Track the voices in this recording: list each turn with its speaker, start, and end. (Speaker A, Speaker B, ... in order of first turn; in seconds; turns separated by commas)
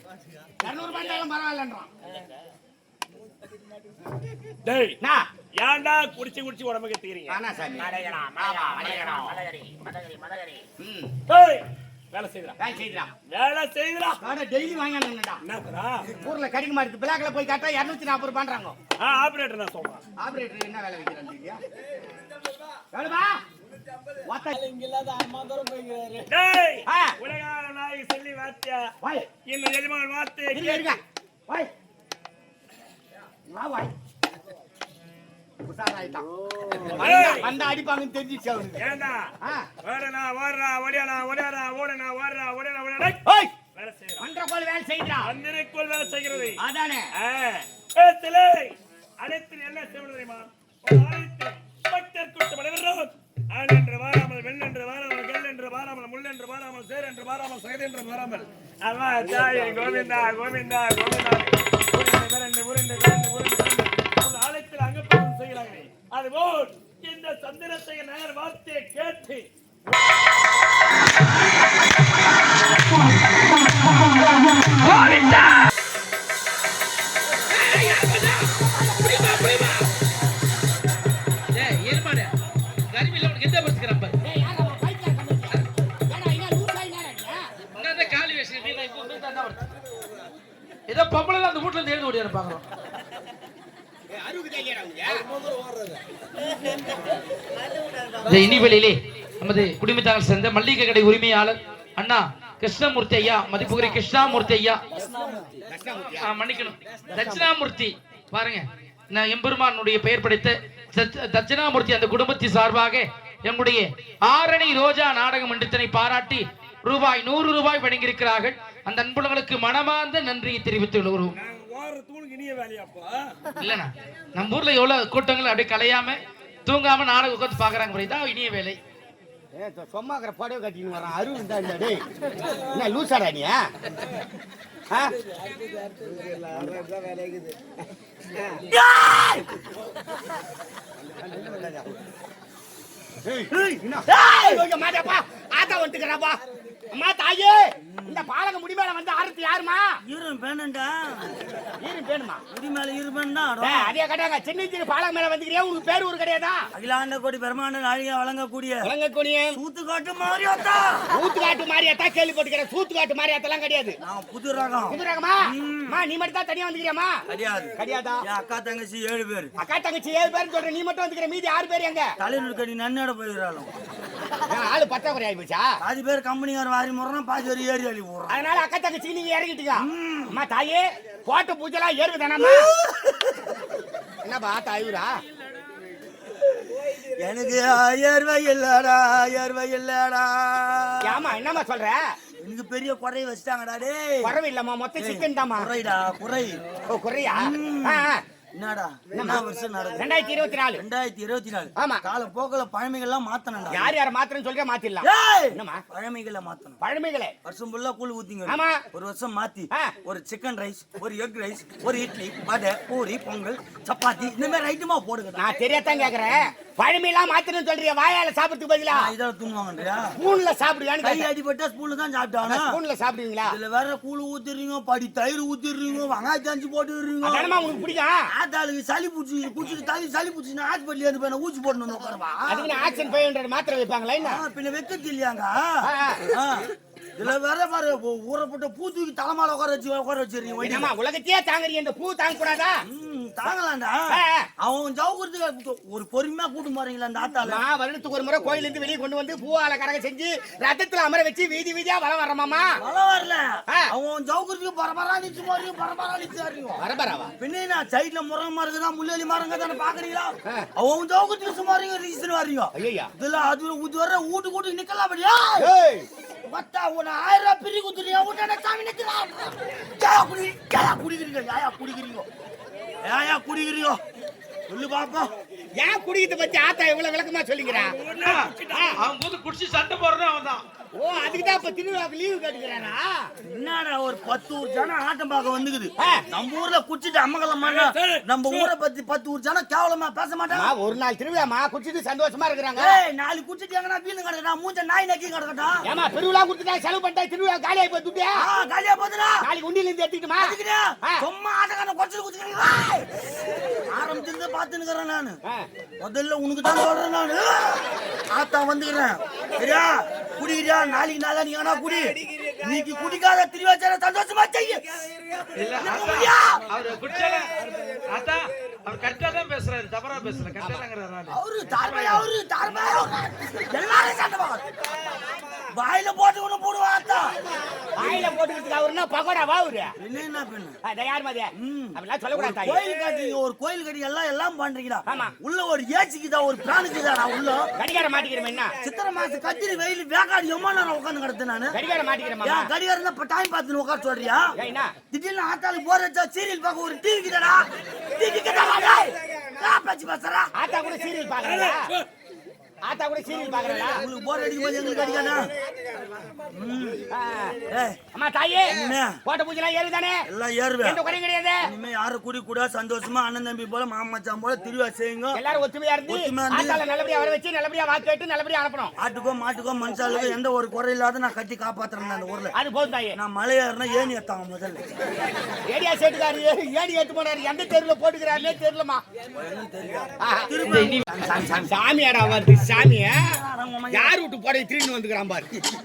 Speaker A: 0.6-1.9, Speaker B: 4.6-5.0, Speaker A: 5.0-5.3, Speaker B: 5.6-7.4, Speaker A: 7.3-9.5, Speaker C: 8.0-10.6, Speaker A: 10.8-11.1, Speaker B: 11.3-12.6, Speaker A: 12.6-13.1, Speaker B: 13.3-14.2, Speaker A: 14.2-15.4, Speaker B: 15.4-16.0, Speaker A: 16.2-18.8, Speaker B: 19.0-20.0, Speaker A: 20.2-21.6, Speaker A: 22.9-23.4, Speaker A: 24.3-24.6, Speaker B: 24.8-28.9, Speaker A: 26.9-27.2, Speaker A: 29.0-29.3, Speaker B: 29.5-31.0, Speaker A: 30.5-31.7, Speaker A: 33.5-33.9, Speaker A: 35.6-38.8, Speaker B: 37.0-37.5, Speaker B: 38.8-39.3, Speaker A: 39.4-39.7, Speaker B: 39.8-44.3, Speaker A: 43.2-43.5, Speaker A: 44.2-45.3, Speaker B: 45.2-46.6, Speaker A: 46.6-47.1, Speaker B: 47.2-69.5, Speaker D: 75.0-75.2, Speaker B: 75.1-75.5, Speaker D: 77.5-79.9, Speaker D: 81.5-82.3, Speaker D: 82.9-84.2, Speaker A: 84.2-87.4, Speaker D: 87.8-89.7, Speaker D: 90.9-92.6, Speaker A: 94.1-95.2, Speaker D: 98.3-104.8, Speaker A: 105.7-106.3, Speaker D: 106.2-121.4, Speaker B: 121.3-123.3, Speaker D: 123.6-128.8, Speaker A: 129.5-133.7, Speaker E: 138.7-139.6, Speaker A: 141.3-141.7, Speaker A: 143.2-149.9, Speaker E: 143.5-144.7, Speaker E: 147.8-148.3, Speaker E: 150.1-151.4, Speaker A: 151.8-152.4, Speaker E: 152.5-154.0, Speaker A: 153.6-156.7, Speaker E: 156.7-158.9, Speaker A: 158.8-159.6, Speaker E: 159.6-161.1, Speaker A: 161.1-164.0, Speaker E: 164.0-166.0, Speaker A: 164.9-167.1, Speaker E: 167.3-169.5, Speaker A: 167.8-168.2, Speaker A: 169.6-172.1, Speaker E: 172.2-173.7, Speaker A: 174.4-175.7, Speaker E: 175.8-178.4, Speaker A: 178.3-182.7, Speaker E: 179.8-180.4, Speaker E: 182.4-183.6, Speaker A: 184.2-185.1, Speaker E: 186.3-191.4, Speaker A: 191.1-192.0, Speaker E: 192.4-194.4, Speaker A: 194.2-195.7, Speaker E: 195.0-196.6, Speaker A: 196.9-198.2, Speaker E: 197.3-204.0, Speaker A: 199.1-199.4, Speaker A: 200.0-200.8, Speaker A: 201.8-202.0, Speaker A: 203.7-205.8, Speaker E: 205.0-206.8, Speaker A: 206.8-207.3, Speaker E: 207.4-215.7, Speaker A: 208.5-208.8, Speaker A: 215.4-219.1, Speaker E: 218.9-220.2, Speaker A: 220.2-221.3, Speaker E: 221.0-222.8, Speaker A: 222.4-223.6, Speaker E: 223.5-227.8, Speaker A: 227.2-228.2, Speaker E: 228.3-233.0, Speaker A: 232.5-234.4, Speaker E: 234.2-235.7, Speaker A: 235.8-236.3, Speaker E: 236.3-240.9, Speaker A: 240.6-242.8, Speaker E: 242.9-244.1, Speaker A: 244.1-244.5, Speaker E: 244.6-247.6, Speaker A: 247.4-252.7, Speaker E: 252.8-256.8, Speaker A: 256.8-257.3, Speaker E: 257.4-265.7, Speaker A: 262.8-263.1, Speaker A: 265.6-266.1, Speaker E: 266.5-272.3, Speaker E: 273.0-274.0, Speaker E: 274.7-275.3, Speaker A: 275.8-278.0, Speaker B: 277.7-278.9, Speaker D: 278.2-280.6, Speaker A: 281.0-283.1, Speaker E: 283.4-290.7, Speaker A: 286.0-286.2, Speaker B: 287.6-288.7, Speaker A: 290.5-293.0, Speaker E: 292.8-295.8, Speaker A: 295.9-298.4, Speaker E: 298.4-299.4, Speaker A: 299.4-300.5, Speaker E: 300.4-303.1, Speaker E: 303.9-305.4, Speaker E: 306.0-314.8, Speaker D: 315.6-322.3, Speaker E: 315.8-316.6, Speaker A: 320.6-320.9, Speaker E: 321.3-324.7, Speaker E: 325.7-327.4, Speaker A: 328.0-329.9, Speaker E: 328.0-328.4, Speaker E: 330.0-330.8, Speaker A: 330.9-332.8, Speaker E: 331.6-337.7, Speaker A: 335.1-335.3, Speaker A: 337.8-338.8, Speaker E: 338.8-341.8, Speaker A: 341.7-342.7, Speaker E: 342.4-344.5, Speaker A: 344.6-344.9, Speaker E: 345.1-350.5, Speaker A: 350.6-351.9, Speaker B: 351.4-352.1, Speaker A: 352.8-354.0, Speaker E: 353.9-355.6, Speaker E: 356.5-357.1, Speaker A: 357.1-357.6, Speaker E: 357.7-358.0, Speaker A: 358.1-360.2, Speaker E: 358.7-359.2, Speaker E: 360.3-361.0, Speaker A: 360.8-361.6, Speaker E: 361.7-365.4, Speaker A: 365.3-368.9, Speaker E: 366.1-366.8, Speaker E: 369.0-372.5, Speaker A: 372.6-373.2, Speaker E: 373.1-374.9, Speaker A: 375.4-379.0, Speaker E: 379.3-384.2, Speaker A: 380.2-380.5, Speaker D: 380.6-381.1, Speaker A: 381.7-383.3, Speaker A: 383.9-385.5